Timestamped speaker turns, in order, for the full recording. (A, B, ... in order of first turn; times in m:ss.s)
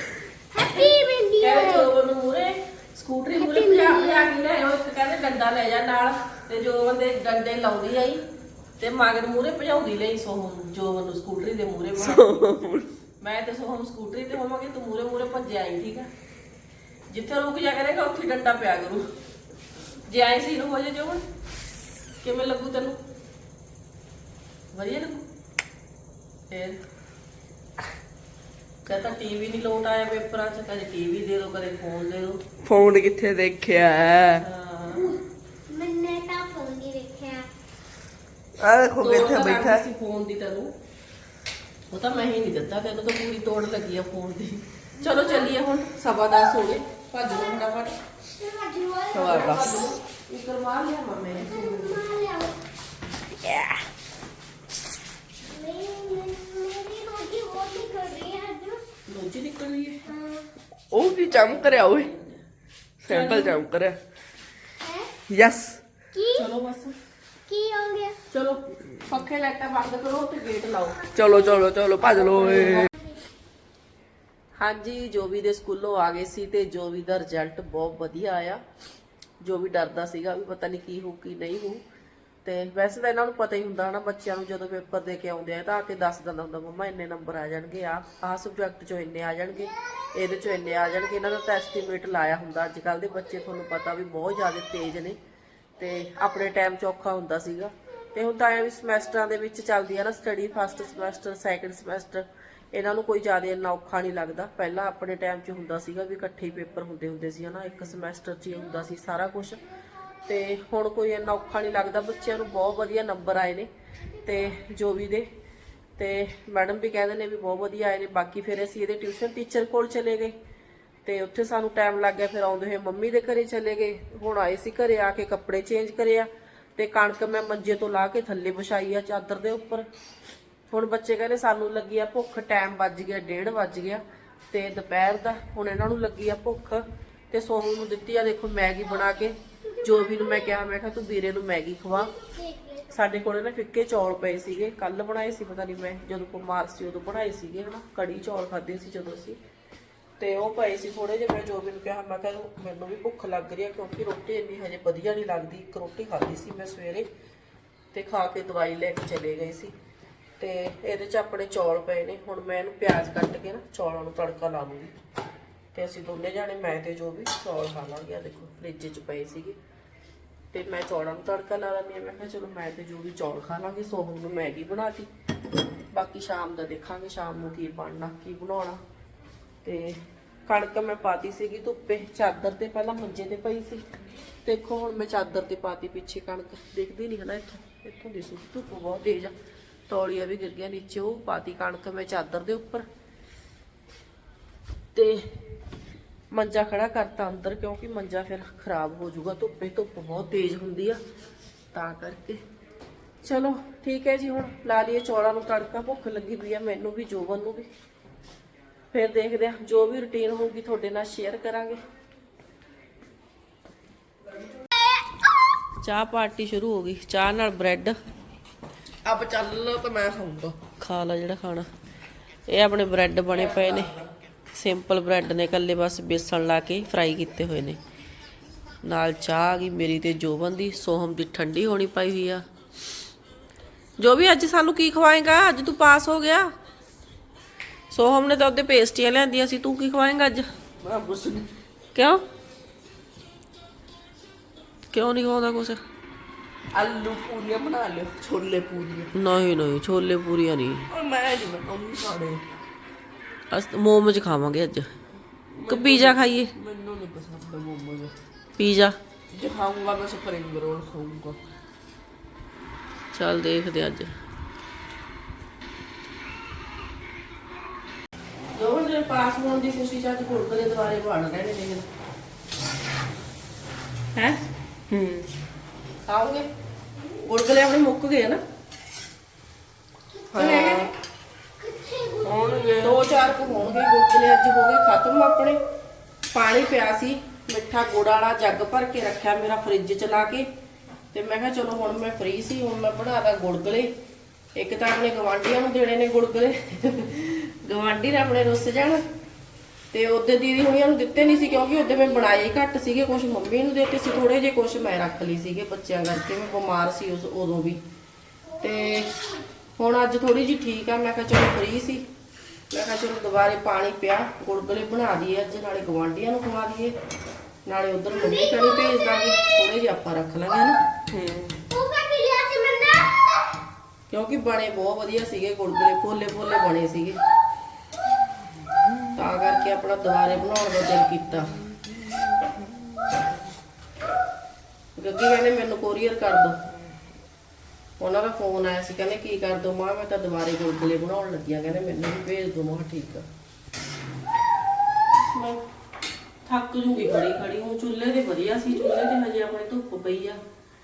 0:00.5-0:01.9 A
0:00.8-0:08.2 B
0:03.4-0:04.3 A
0:08.8-0:12.3 B
0:12.0-0:12.9 C
0:13.2-0:16.1 B
0:17.1-0:19.1 B
0:20.1-0:21.2 B
0:22.2-0:23.0 B
0:24.7-0:25.2 B
0:26.5-0:26.8 B
0:28.8-0:32.4 B
0:32.6-0:34.4 C
0:34.4-0:35.1 B
0:34.9-0:37.5 A
0:38.6-0:39.8 C
0:39.0-0:40.7 B
0:41.9-0:48.0 B
0:45.0-0:45.5 A
0:48.4-0:49.9 A
0:49.1-0:49.7 C
0:49.2-0:52.0 B
0:51.4-0:52.6 A
0:53.4-0:53.8 C
0:55.5-0:58.8 A
0:59.1-1:00.1 B
1:00.1-1:00.5 A
1:00.9-1:02.1 C
1:01.0-1:02.4 B
1:03.0-1:04.0 C
1:03.1-1:03.6 B
1:04.8-1:05.1 A
1:05.3-1:05.8 C
1:06.1-1:06.5 A
1:06.3-1:07.0 B
1:07.5-1:08.2 A
1:08.3-1:11.1 B
1:11.1-1:12.9 C
1:12.0-1:12.9 B
1:14.6-1:18.6 B
1:19.4-1:21.8 B
1:22.4-1:35.2 B
1:35.8-1:49.6 B
1:50.2-1:53.7 B
1:54.2-1:54.5 A
1:54.2-1:55.3 B
1:56.0-2:00.3 B
2:01.0-2:09.9 B
2:10.7-2:22.1 B
2:19.7-2:20.6 A
2:21.9-2:22.9 A
2:22.9-2:29.4 B
2:30.2-2:37.0 B
2:37.9-2:39.7 B
2:40.4-2:44.9 B
2:45.7-2:49.6 B
2:50.5-2:55.1 B
2:55.9-2:58.8 B
2:59.6-3:03.8 B
3:04.4-3:09.3 B
3:09.9-3:12.8 B
3:14.9-3:15.3 B
3:16.3-3:21.0 B
3:21.7-3:22.4 B
3:23.2-3:27.7 B
3:28.9-3:31.8 B
3:35.8-3:38.0 B
3:39.0-3:40.6 C
3:40.8-3:41.7 B
3:42.5-3:43.9 B
3:43.3-3:44.1 C
3:44.5-3:47.8 B
3:48.8-3:52.4 B
3:54.0-3:56.5 B
3:57.9-4:00.5 B
4:00.8-4:01.5 C
4:01.9-4:02.2 B
4:04.9-4:05.8 B
4:06.7-4:09.1 C
4:09.1-4:10.9 B
4:10.9-4:12.4 C
4:13.5-4:14.9 B
4:15.5-4:18.1 C
4:15.7-4:16.5 B
4:18.6-4:19.0 B
4:19.3-4:21.4 C
4:23.1-4:24.1 B
4:28.5-4:31.8 B
4:34.9-4:35.2 C
4:36.0-4:36.4 B
4:37.2-4:38.4 B
4:40.2-4:40.8 A
4:40.3-4:40.9 C
4:40.4-4:40.9 B
4:41.6-4:43.0 A
4:42.2-4:43.1 C
4:42.8-4:45.6 B
4:46.3-4:50.5 B
4:51.1-4:53.9 B
4:54.6-4:59.0 B
4:59.9-5:07.8 B
5:08.5-5:09.4 A
5:08.6-5:09.1 B
5:09.8-5:12.0 B
5:12.7-5:16.9 B
5:17.6-5:20.8 B
5:18.3-5:18.9 A
5:21.1-5:21.6 C
5:21.7-5:23.4 A
5:24.1-5:27.2 B
5:29.1-5:31.5 B
5:31.7-5:33.2 C
5:35.0-5:36.6 B
5:38.0-5:43.2 B
5:45.3-5:45.6 B
5:46.4-5:50.4 B